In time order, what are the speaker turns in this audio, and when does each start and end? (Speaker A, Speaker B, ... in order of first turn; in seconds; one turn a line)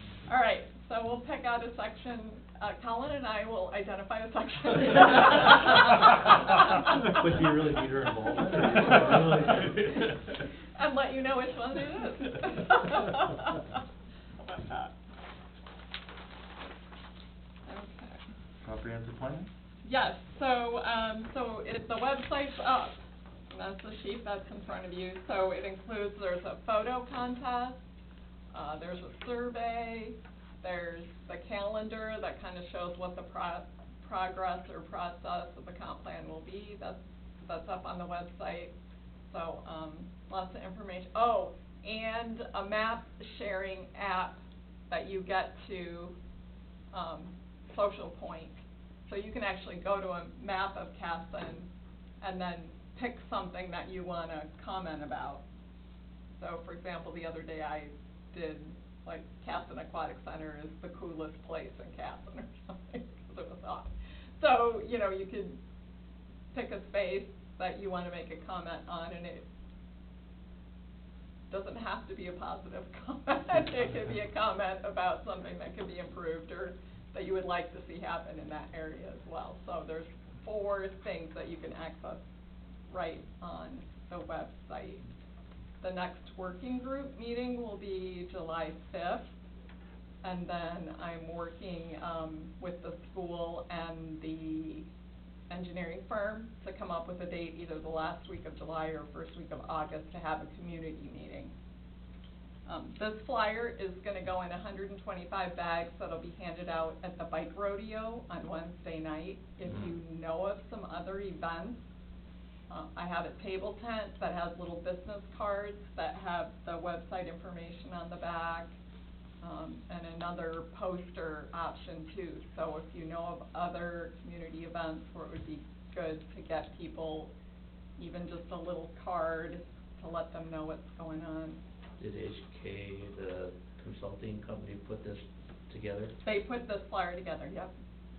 Speaker A: 0.2-6.1
Speaker B: 7.1-10.3
Speaker A: 10.8-13.8
Speaker A: 14.4-14.9
Speaker A: 17.7-18.2
Speaker B: 18.6-19.5
Speaker A: 19.8-23.0
Speaker A: 23.5-27.8
Speaker A: 28.5-38.7
Speaker A: 39.3-46.2
Speaker A: 46.9-51.7
Speaker A: 52.2-55.4
Speaker A: 56.3-65.6
Speaker A: 66.5-69.5
Speaker A: 71.5-82.2
Speaker A: 82.9-85.0
Speaker A: 85.8-89.3
Speaker A: 90.2-94.9
Speaker A: 95.5-101.5
Speaker A: 102.7-111.9
Speaker B: 109.7-109.9
Speaker A: 112.7-118.7
Speaker A: 119.4-127.3
Speaker A: 128.0-131.6
Speaker B: 132.0-136.2
Speaker A: 136.2-137.7